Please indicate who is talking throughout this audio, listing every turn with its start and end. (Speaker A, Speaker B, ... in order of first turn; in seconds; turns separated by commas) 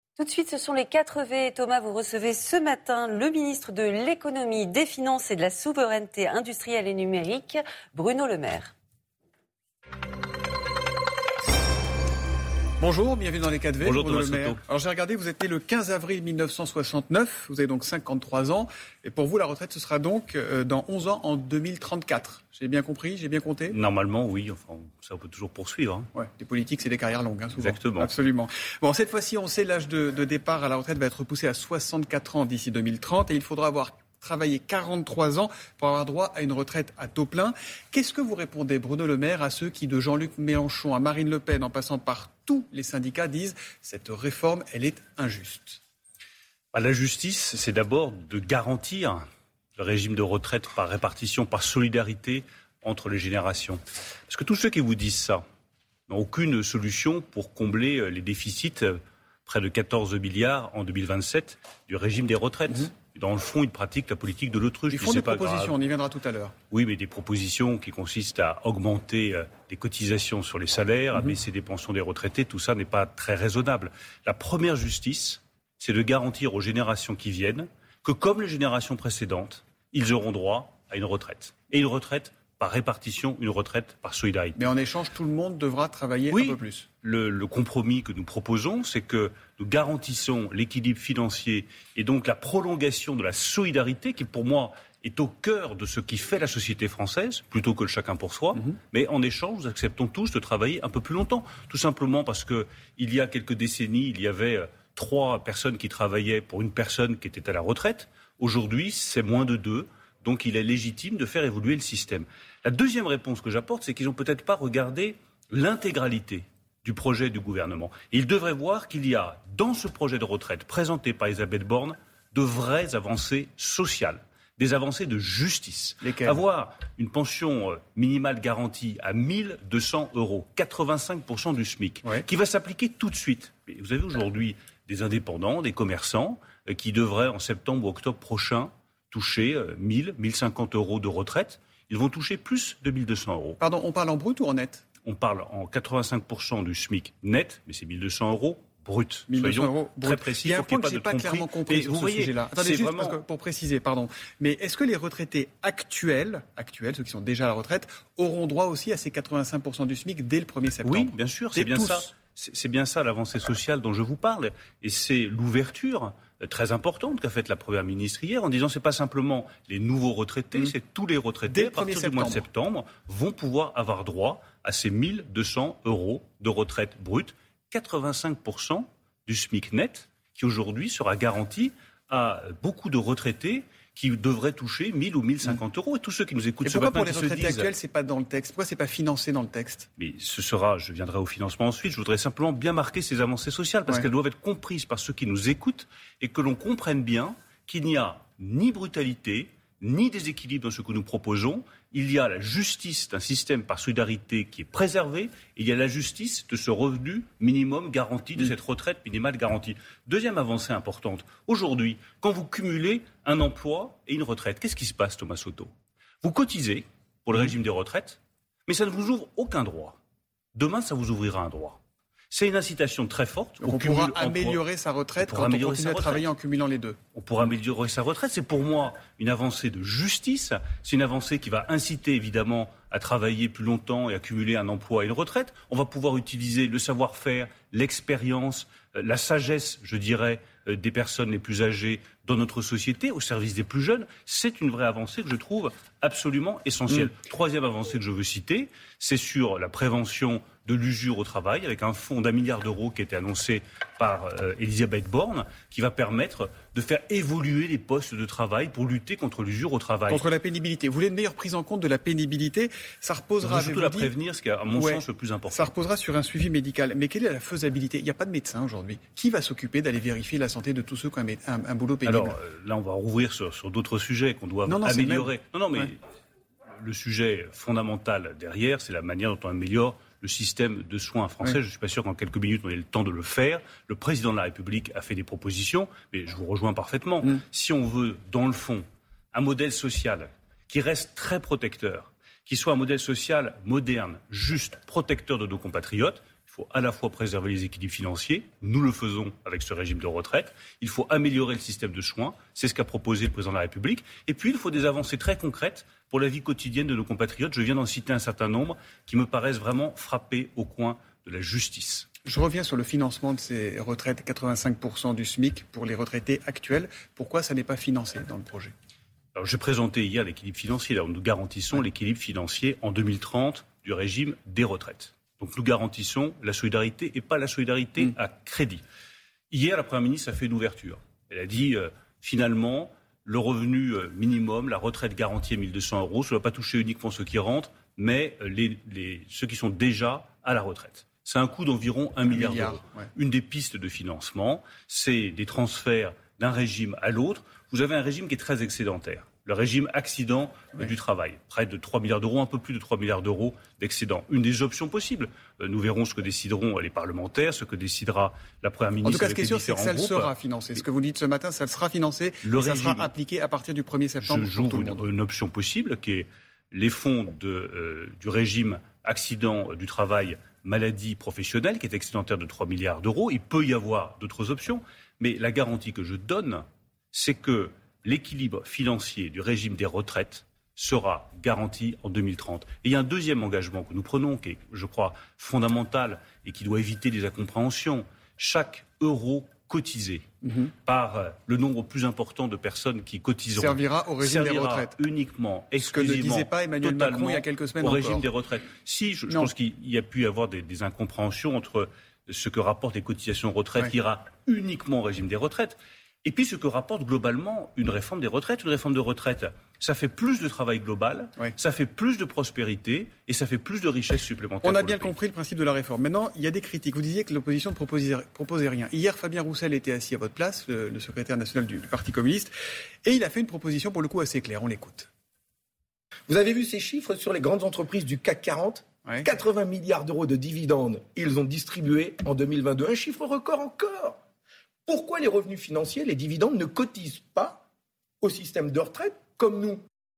Speaker A: 0.2-8.7, Speaker B: 12.8-23.8, Speaker C: 13.8-14.6, Speaker C: 23.7-26.1, Speaker B: 26.1-45.8, Speaker C: 27.6-28.1, Speaker C: 46.7-55.4, Speaker C: 56.1-65.7, Speaker B: 64.9-66.5, Speaker C: 66.7-84.6, Speaker B: 84.5-86.8, Speaker C: 86.3-143.6, Speaker B: 126.0-126.4, Speaker B: 143.6-144.8, Speaker C: 145.0-153.2, Speaker B: 149.3-162.1, Speaker C: 160.8-187.7, Speaker B: 171.4-172.4, Speaker B: 186.6-189.9, Speaker C: 190.0-215.7, Speaker C: 216.2-220.0, Speaker C: 220.5-221.8, Speaker C: 222.3-224.6, Speaker B: 223.6-227.0, Speaker C: 225.2-226.3, Speaker C: 227.1-260.2, Speaker B: 260.1-264.1, Speaker C: 263.4-265.6, Speaker B: 264.7-272.4, Speaker C: 272.1-275.9, Speaker B: 274.6-275.9, Speaker C: 276.8-312.1, Speaker B: 312.2-318.7, Speaker C: 319.3-328.8, Speaker C: 329.5-360.8, Speaker B: 342.2-343.1, Speaker B: 359.0-365.1, Speaker C: 362.4-363.1, Speaker C: 364.2-390.2, Speaker B: 390.4-390.7, Speaker C: 390.9-415.1, Speaker B: 393.5-394.9, Speaker B: 395.8-398.3, Speaker B: 414.6-422.5, Speaker B: 423.0-425.1, Speaker D: 426.3-434.2, Speaker D: 434.9-437.6, Speaker D: 438.2-439.8